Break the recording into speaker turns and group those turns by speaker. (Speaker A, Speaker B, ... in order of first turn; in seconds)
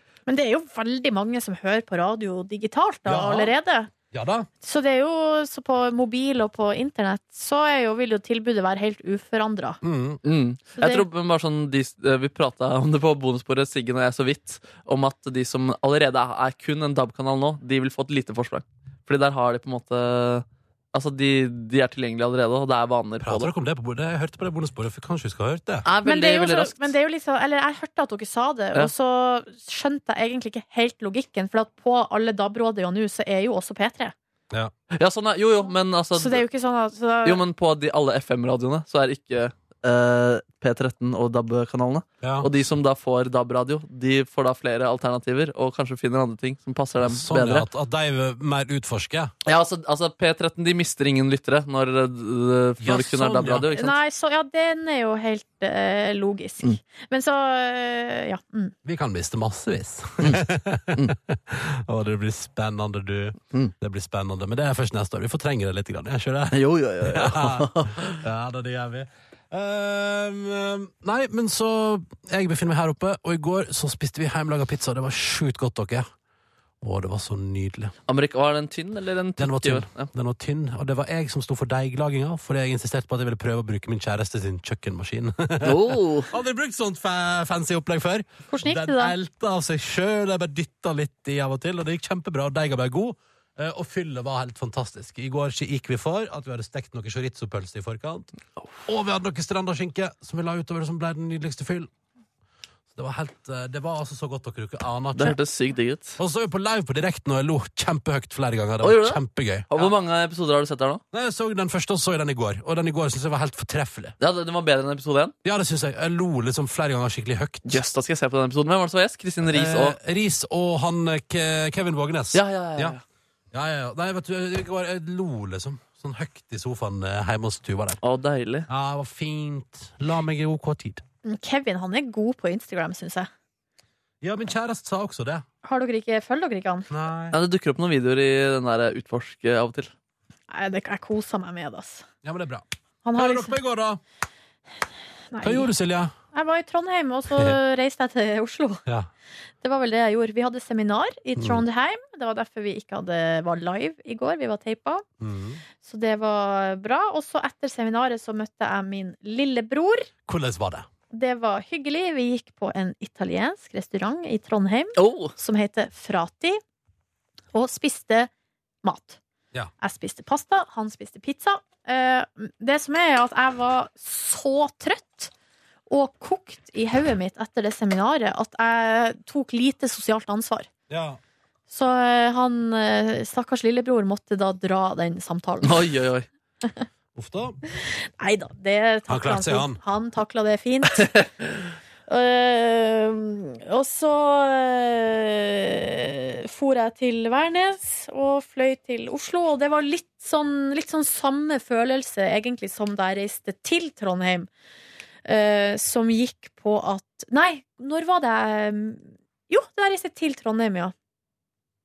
Speaker A: 0.3-3.9, 4.6-9.8, 10.8-11.0, 26.0-34.1, 36.2-37.4, 53.7-58.7, 88.5-89.1, 131.2-133.3, 135.6-136.9, 140.5-142.0, 143.1-143.5, 145.3-145.7, 146.3-148.8, 149.6-155.0, 155.8-160.1, 161.1-166.6, 167.5-168.3, 168.8-169.2, 169.8-175.3, 175.9-180.7, 181.7-185.8, 188.2-191.2, 192.1-204.5, 205.2-210.9
Speaker B: 3.0-3.5, 4.1-4.5, 9.8-10.2, 23.2-25.8, 42.2-42.5, 47.0-49.3, 52.8-53.7, 58.8-76.1, 76.8-77.9, 79.4-98.3, 98.8-101.9, 102.9-105.4, 106.2-109.9, 111.1-114.2, 115.4-117.8, 119.4-123.0, 123.5-128.0, 128.7-131.0, 134.2-135.4, 136.9-137.4, 142.2-144.0, 145.4-146.1, 155.2-155.6, 160.3-160.9, 180.9-181.2, 187.1-187.6, 189.1-189.8
Speaker C: 10.2-23.5, 25.8-26.9, 34.9-36.4, 37.2-47.6, 49.4-54.0, 66.5-68.2, 78.1-80.1, 85.6-86.3, 105.2-106.2, 108.8-111.0, 114.2-115.3, 117.7-120.0, 122.3-123.0, 128.0-128.7, 137.3-139.9, 165.0-165.3, 185.6-186.2